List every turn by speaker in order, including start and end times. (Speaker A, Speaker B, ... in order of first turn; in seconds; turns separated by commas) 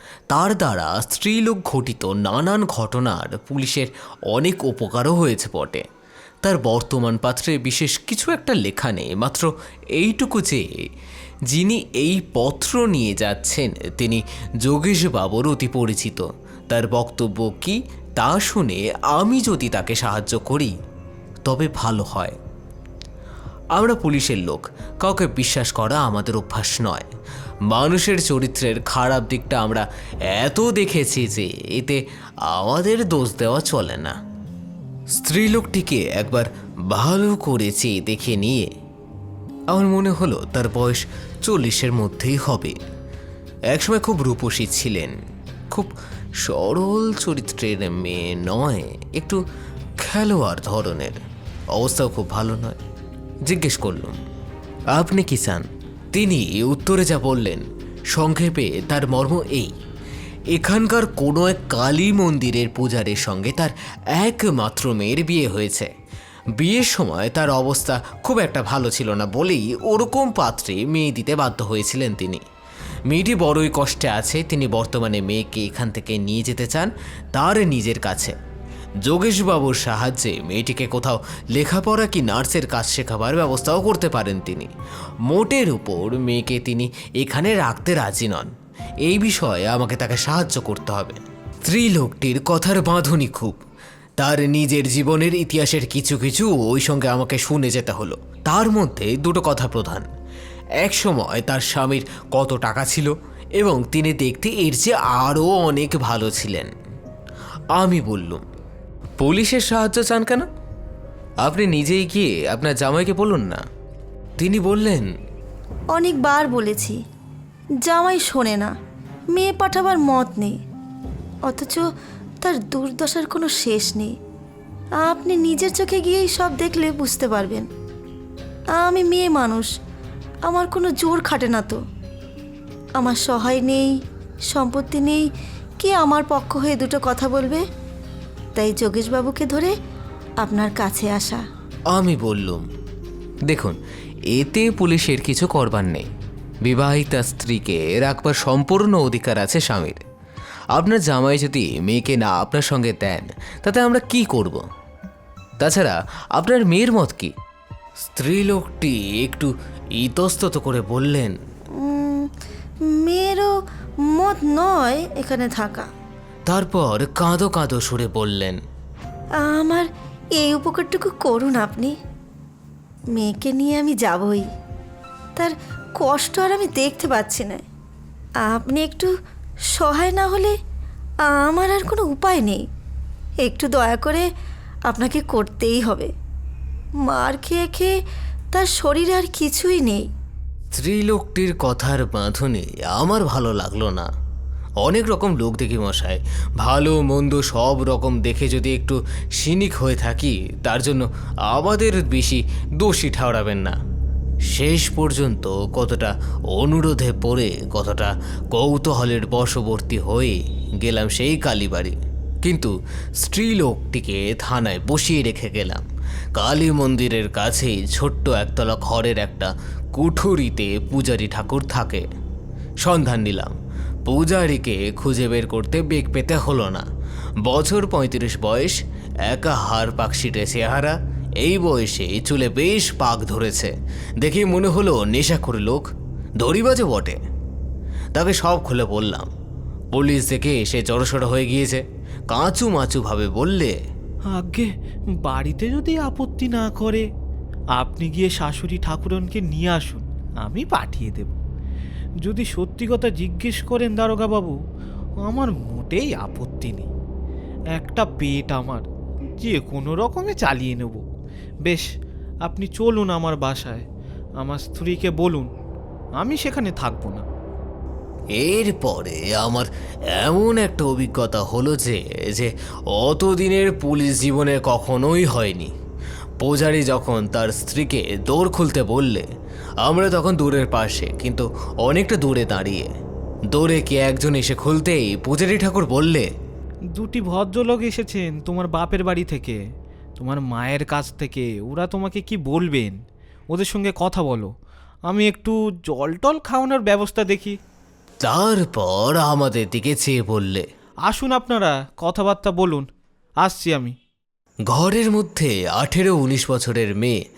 Speaker A: 0.3-5.8, Speaker A: 6.4-10.7, Speaker A: 11.5-20.7, Speaker A: 21.4-22.4, Speaker A: 23.7-27.1, Speaker A: 27.7-34.1, Speaker A: 35.1-38.7, Speaker A: 39.7-42.8, Speaker A: 43.7-45.1, Speaker A: 45.7-49.4, Speaker A: 50.0-51.2, Speaker A: 51.7-52.8, Speaker A: 53.5-54.2, Speaker A: 54.9-59.7, Speaker A: 60.5-65.9, Speaker A: 66.6-72.4, Speaker A: 73.1-78.3, Speaker A: 79.0-84.7, Speaker A: 85.2-88.5, Speaker A: 89.0-93.6, Speaker A: 94.2-100.1, Speaker A: 100.8-106.7, Speaker A: 107.7-108.4, Speaker A: 109.2-110.5, Speaker A: 111.4-113.6, Speaker A: 114.4-115.1, Speaker B: 115.9-117.0, Speaker B: 117.8-118.7, Speaker B: 119.3-120.6, Speaker B: 121.4-121.8, Speaker B: 122.4-124.1, Speaker B: 125.0-127.7, Speaker B: 128.7-129.7, Speaker B: 130.4-131.8, Speaker B: 133.0-134.0, Speaker B: 134.5-135.3, Speaker B: 135.8-137.6, Speaker B: 138.6-139.7, Speaker B: 140.4-141.4, Speaker A: 141.9-142.6, Speaker A: 143.5-143.8, Speaker A: 144.3-146.1, Speaker A: 146.6-150.0, Speaker A: 150.7-154.6, Speaker A: 155.6-157.3, Speaker A: 158.0-161.3, Speaker B: 161.8-162.3, Speaker B: 162.8-163.5, Speaker B: 164.0-165.9, Speaker A: 166.5-168.6, Speaker B: 169.4-171.9, Speaker B: 173.1-174.5, Speaker B: 175.3-177.6, Speaker B: 178.4-179.1, Speaker B: 179.7-180.5, Speaker B: 181.2-182.6, Speaker B: 183.4-184.3, Speaker B: 184.9-186.1, Speaker B: 187.0-187.9, Speaker B: 188.5-190.1, Speaker A: 190.7-194.1, Speaker A: 194.8-203.8, Speaker A: 204.4-215.8, Speaker A: 216.3-222.1, Speaker A: 222.8-223.5, Speaker A: 224.1-226.8, Speaker A: 227.4-235.8, Speaker A: 236.4-237.2, Speaker A: 238.1-239.3, Speaker A: 239.9-243.7, Speaker C: 244.3-244.7, Speaker C: 245.2-247.0, Speaker C: 247.8-251.4, Speaker C: 252.2-254.5, Speaker C: 255.2-256.9, Speaker C: 257.7-258.8, Speaker C: 259.4-261.0, Speaker C: 262.4-263.8, Speaker C: 264.4-265.5, Speaker C: 266.1-267.2, Speaker A: 268.3-275.7, Speaker A: 276.4-279.3, Speaker A: 279.8-282.9, Speaker A: 283.5-286.3, Speaker C: 286.9-289.6, Speaker C: 290.2-293.0, Speaker C: 293.5-294.5, Speaker C: 295.1-297.6, Speaker A: 298.2-300.6, Speaker C: 301.1-302.8, Speaker C: 303.4-303.9, Speaker A: 304.7-307.2